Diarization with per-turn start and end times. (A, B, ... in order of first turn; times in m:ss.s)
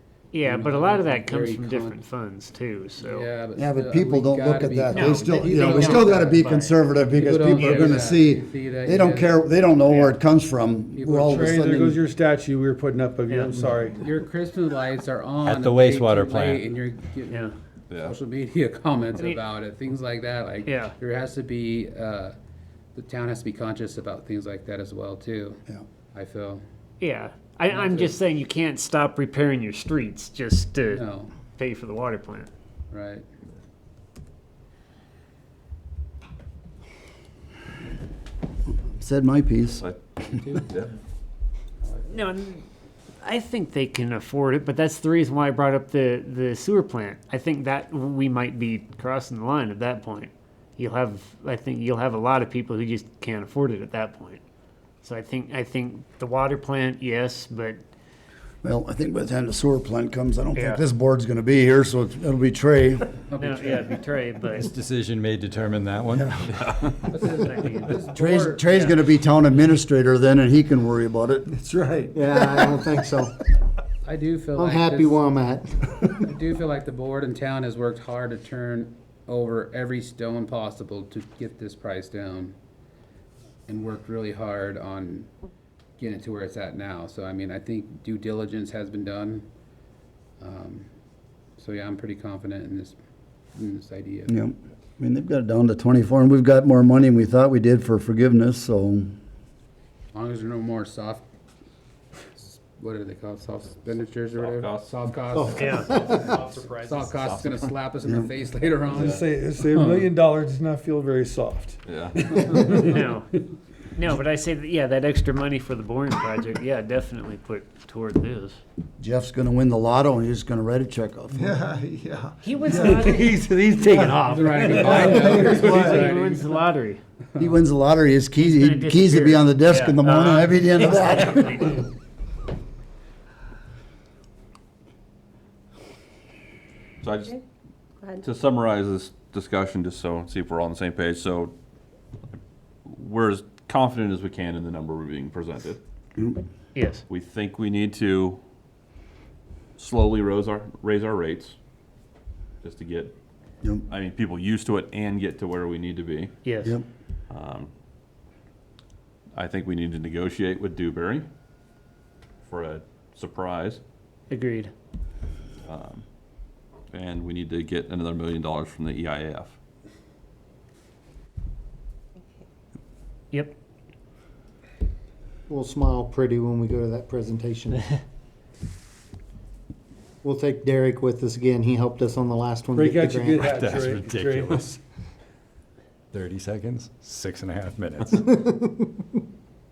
0:00.3-0:03.3 A
0:00.4-0:02.0 B
0:03.0-0:06.4 B
0:03.6-0:12.0 C
0:04.9-0:06.8 A
0:07.1-0:10.2 B
0:07.6-0:08.0 A
0:10.9-0:11.7 B
0:11.3-0:14.1 D
0:13.3-0:13.6 A
0:13.9-0:22.4 B
0:15.4-0:16.7 E
0:17.3-0:17.5 A
0:19.2-0:19.4 A
0:20.6-0:21.0 A
0:23.0-0:25.6 B
0:26.1-0:26.6 B
0:27.0-0:32.5 A
0:27.7-0:28.2 B
0:30.8-0:31.3 B
0:32.9-0:33.3 B
0:38.8-0:39.8 C
0:40.2-0:40.8 B
0:40.6-0:40.9 F
0:41.8-0:42.4 B
0:42.1-0:42.6 A
0:43.2-0:54.4 A
0:55.0-0:57.8 A
0:58.6-1:03.1 C
1:00.6-1:00.9 A
1:03.3-1:04.0 B
1:03.4-1:04.7 A
1:04.5-1:06.7 E
1:06.5-1:06.9 F
1:07.0-1:08.9 B
1:07.4-1:08.0 A
1:08.1-1:11.6 C
1:11.6-1:12.6 D
1:12.1-1:13.3 G
1:14.0-1:15.2 B
1:14.6-1:16.1 G
1:16.2-1:22.6 B
1:23.7-1:25.3 B
1:26.0-1:29.5 B
1:30.4-1:30.9 B
1:31.6-1:33.0 B
1:33.6-1:34.3 B
1:34.3-1:39.2 C
1:40.1-1:41.2 B
1:42.4-1:50.1 B
1:44.4-1:45.8 F
1:45.4-1:46.1 G
1:45.6-1:45.9 A
1:47.1-1:47.8 F
1:48.0-1:48.3 C
1:48.9-1:52.9 D
1:48.9-1:49.2 F
1:51.9-1:52.4 F
1:52.6-1:53.3 A
1:54.0-1:58.6 A
1:59.0-2:01.6 C
2:01.4-2:06.1 D
2:02.4-2:03.4 A
2:03.9-2:07.0 A
2:04.2-2:06.7 B
2:07.4-2:11.8 C
2:08.4-2:11.9 A
2:17.0-2:17.4 F
2:18.1-2:21.5 F
2:22.3-2:25.8 F
2:26.8-2:27.0 A
2:27.1-2:28.4 F
2:29.8-2:31.6 F
2:32.6-2:33.1 F
2:33.9-2:36.3 F
2:36.4-2:36.8 A
2:37.3-2:37.7 F
2:39.4-2:41.3 F
2:42.5-2:43.8 F
2:44.3-2:44.7 A
2:45.7-2:46.0 F
2:46.9-2:49.6 F
2:55.5-2:57.8 G
3:00.2-3:03.5 G
3:02.7-3:04.8 D
3:03.3-3:04.8 E
3:06.1-3:08.2 E